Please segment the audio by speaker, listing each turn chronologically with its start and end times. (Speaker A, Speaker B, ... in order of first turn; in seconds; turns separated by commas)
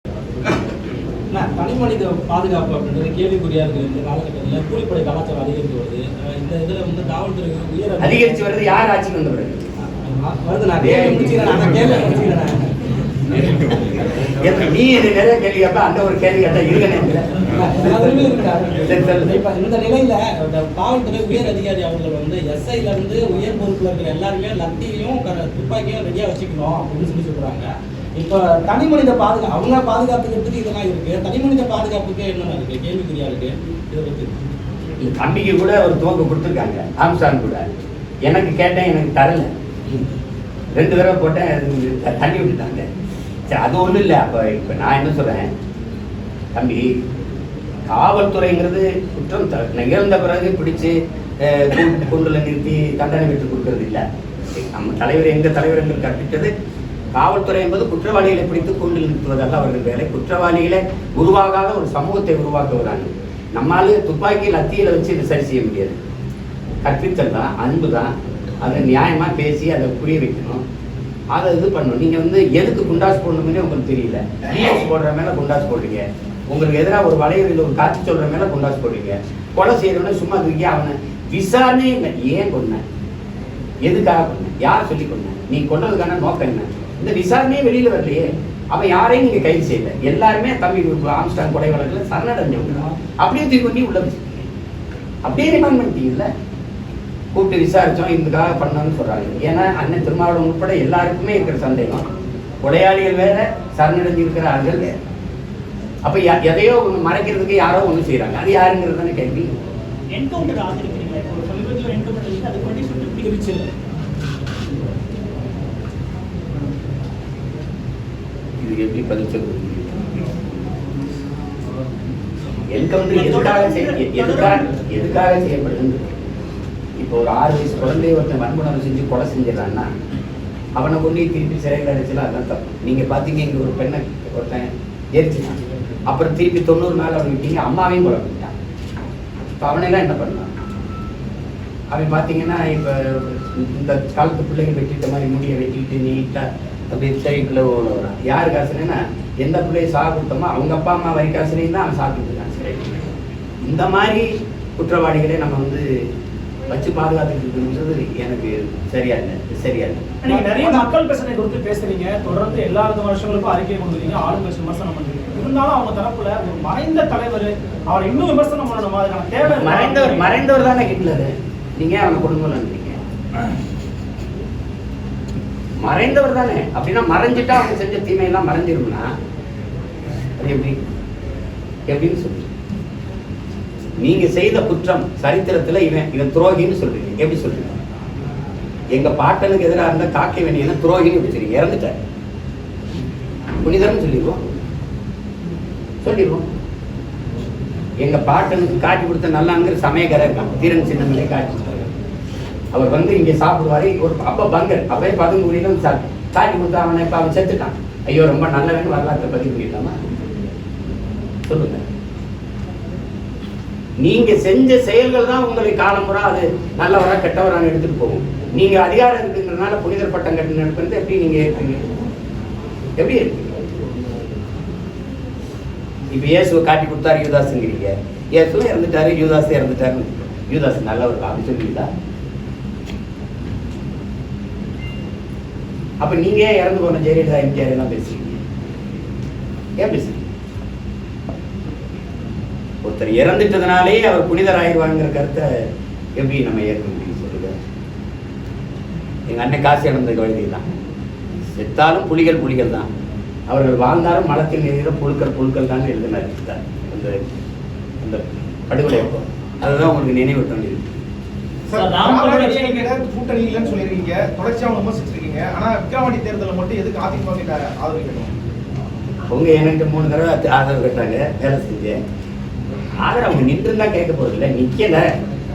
Speaker A: 1.3-8.4, Speaker B: 8.0-9.7, Speaker A: 9.9-12.7, Speaker B: 10.8-11.7, Speaker A: 13.3-13.8, Speaker B: 14.3-17.2, Speaker A: 17.5-34.3, Speaker B: 17.8-18.3, Speaker B: 18.8-19.3, Speaker B: 35.0-37.6, Speaker B: 38.3-39.5, Speaker B: 40.7-42.9, Speaker B: 43.5-45.5, Speaker B: 46.5-46.9, Speaker B: 47.9-54.0, Speaker B: 54.5-56.5, Speaker B: 57.1-66.0, Speaker B: 66.8-68.1, Speaker B: 68.6-70.6, Speaker B: 71.3-82.8, Speaker B: 83.8-94.5, Speaker B: 95.2-96.3, Speaker B: 97.3-102.0, Speaker B: 102.6-104.9, Speaker B: 106.0-109.5, Speaker C: 110.1-113.7, Speaker B: 118.6-120.2, Speaker B: 122.7-126.1, Speaker C: 123.1-124.6, Speaker B: 127.0-129.9, Speaker B: 130.8-138.5, Speaker B: 139.6-140.5, Speaker B: 141.9-153.0, Speaker B: 153.6-155.8, Speaker B: 156.7-160.5, Speaker C: 160.2-170.2, Speaker A: 160.3-160.8, Speaker B: 169.4-173.0, Speaker B: 175.8-179.1, Speaker B: 180.4-180.8, Speaker B: 181.9-182.5, Speaker B: 184.0-187.8, Speaker B: 188.9-191.9, Speaker B: 193.6-194.4, Speaker B: 196.0-196.4, Speaker B: 198.0-201.9, Speaker B: 202.7-209.9, Speaker B: 211.5-211.8, Speaker B: 214.0-221.8, Speaker B: 223.0-223.6, Speaker B: 226.1-231.9, Speaker B: 236.0-238.4, Speaker B: 239.8-240.2, Speaker B: 242.8-245.5, Speaker B: 246.2-247.5, Speaker B: 249.3-250.6, Speaker B: 251.6-252.9, Speaker B: 253.5-257.1, Speaker B: 258.0-260.8, Speaker D: 261.7-268.3, Speaker A: 261.7-262.9, Speaker B: 269.3-271.9, Speaker B: 273.0-275.0